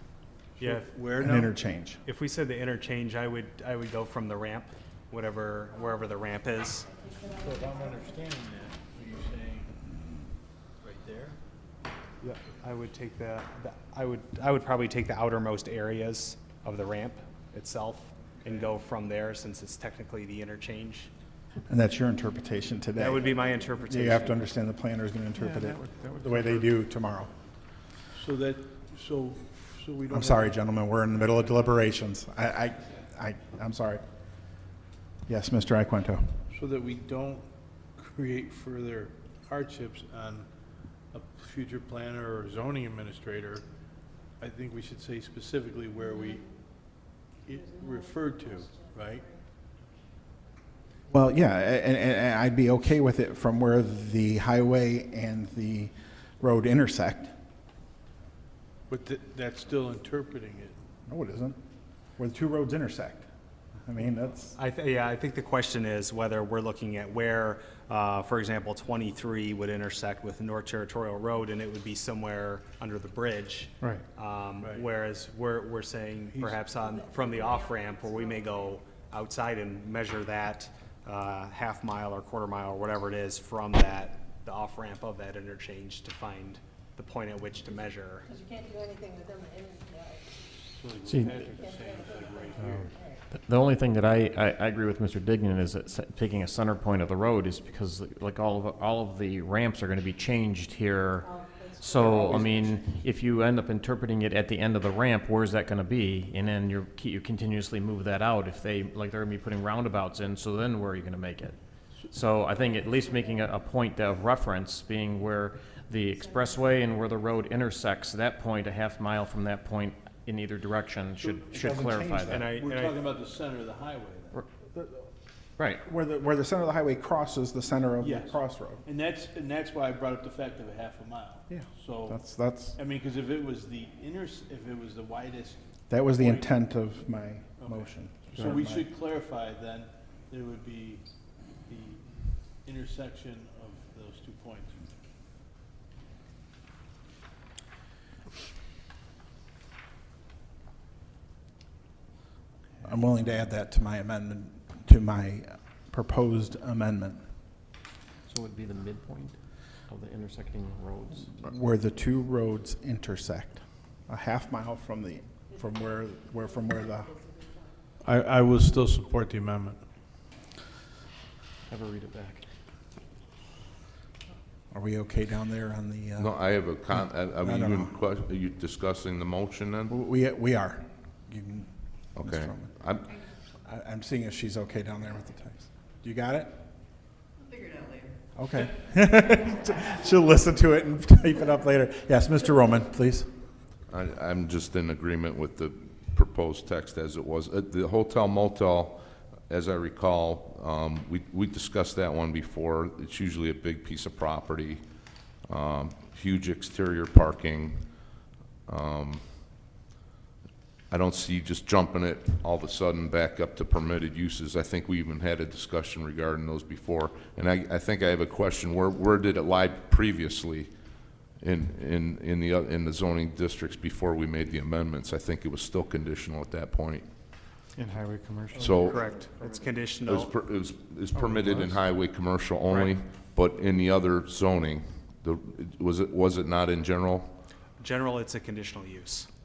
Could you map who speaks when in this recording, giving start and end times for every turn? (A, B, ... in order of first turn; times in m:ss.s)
0:00.6-0:01.6 A
0:00.6-0:00.9 B
0:01.2-0:02.0 C
0:02.0-0:06.9 B
0:06.9-0:08.2 D
0:07.2-0:09.8 A
0:10.8-0:11.4 A
0:12.2-0:21.1 B
0:18.4-0:18.7 A
0:21.7-0:27.3 C
0:23.0-0:24.4 B
0:25.3-0:26.8 E
0:28.1-0:30.6 A
0:30.1-0:34.0 C
0:35.2-0:36.3 C
0:36.5-0:40.5 A
0:41.1-0:43.6 A
0:44.4-0:49.3 A
0:46.1-0:46.4 D
0:47.6-0:49.4 D
0:51.1-0:57.3 C
0:58.9-1:00.8 A
1:01.1-1:01.6 C
1:02.1-1:03.2 C
1:03.8-1:04.5 C
1:04.5-1:28.3 B
1:14.6-1:14.9 A
1:16.3-1:16.7 A
1:16.8-1:18.7 D
1:28.3-1:30.4 D
1:30.7-1:32.9 A
1:31.0-1:31.4 F
1:31.4-1:33.2 D
1:32.6-1:32.9 E
1:33.3-2:02.4 F
1:41.2-1:42.5 D
1:42.2-1:42.8 A
2:01.4-2:02.5 C
2:02.3-2:03.0 B
2:02.5-2:04.4 A
2:04.7-2:05.1 C
2:05.6-2:05.8 F
2:05.8-2:08.8 C
2:08.0-2:12.2 A
2:11.5-2:12.8 C
2:12.8-2:16.5 A
2:15.9-2:18.9 C
2:17.6-2:21.0 A
2:21.7-2:24.8 A
2:32.8-2:37.2 C
2:38.2-2:41.5 F
2:41.2-2:47.1 C
2:46.4-2:47.8 D
2:48.0-2:49.8 A
2:51.7-2:52.4 F
2:54.7-2:56.9 C
2:56.2-3:00.0 G
2:57.4-2:58.0 C
2:59.9-3:02.8 C
3:02.1-3:03.2 G
3:03.5-3:06.6 C
3:08.3-3:13.3 C
3:13.9-3:29.7 G
3:30.9-3:47.1 G
3:47.7-3:49.5 E
3:48.6-3:50.3 B
3:48.6-3:49.0 G
3:50.0-3:57.4 G
3:51.1-3:51.8 E
3:57.8-3:59.3 B